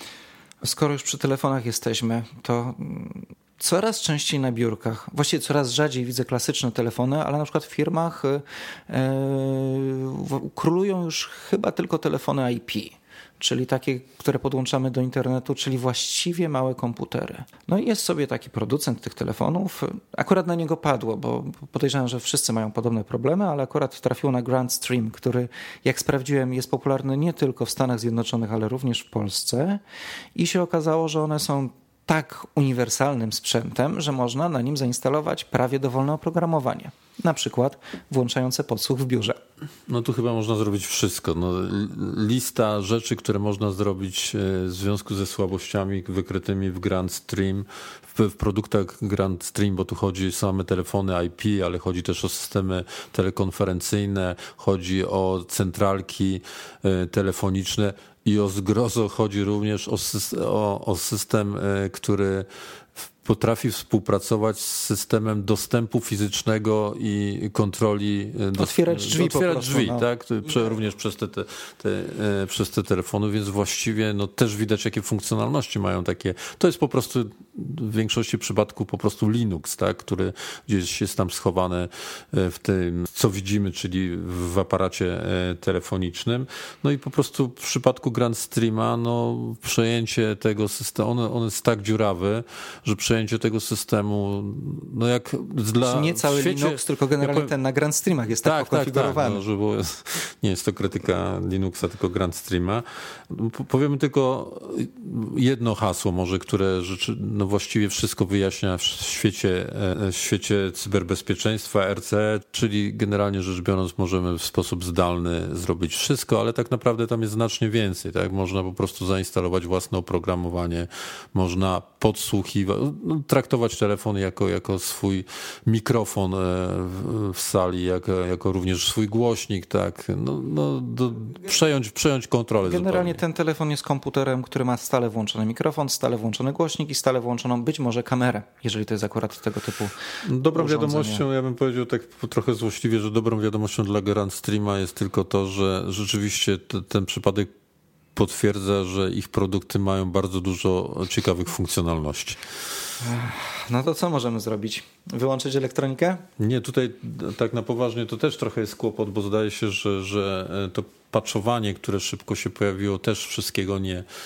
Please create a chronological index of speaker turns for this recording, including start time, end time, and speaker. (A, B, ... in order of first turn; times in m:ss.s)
0:00.6-0:29.8 A
0:30.4-0:39.4 A
0:39.9-1:02.5 B
1:03.2-1:37.5 B
1:08.6-1:10.1 A
1:35.8-1:39.4 A
1:38.4-2:13.2 B
2:12.6-2:20.0 A
2:20.2-2:27.5 B
2:20.5-2:21.2 A
2:28.2-2:32.4 B
2:33.0-2:36.2 A
2:36.4-2:44.1 B